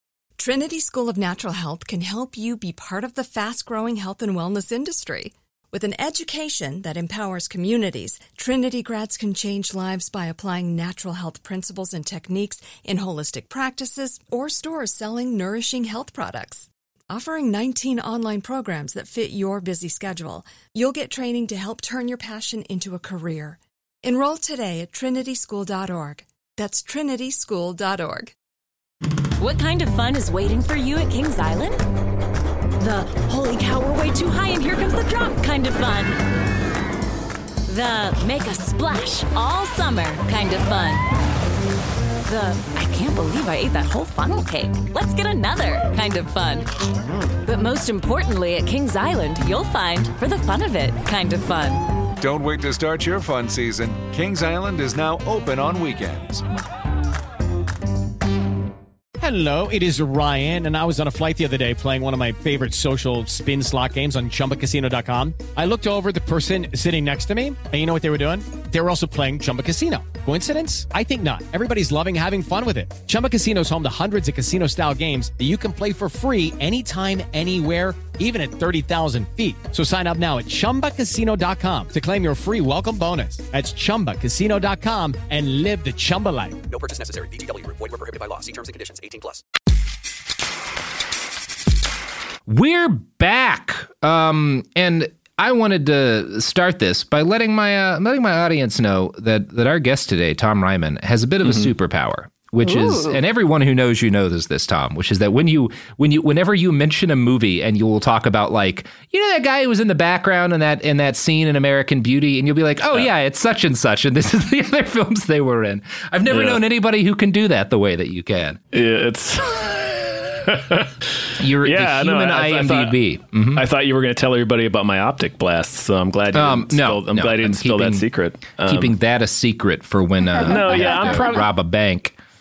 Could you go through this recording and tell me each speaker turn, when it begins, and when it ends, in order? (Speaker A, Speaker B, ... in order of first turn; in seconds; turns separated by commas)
Speaker A: 0.4-28.3, Speaker B: 29.4-31.8, Speaker B: 32.8-36.1, Speaker B: 37.7-41.0, Speaker B: 42.2-46.7, Speaker B: 47.4-51.8, Speaker C: 52.2-56.4, Speaker D: 59.2-86.6, Speaker E: 86.7-89.4, Speaker F: 92.5-118.6, Speaker G: 101.4-101.7, Speaker G: 116.3-116.6, Speaker G: 118.7-120.9, Speaker F: 121.4-123.6, Speaker G: 121.6-123.0, Speaker G: 123.5-128.9, Speaker F: 126.3-128.0, Speaker F: 128.6-132.2, Speaker G: 130.4-131.5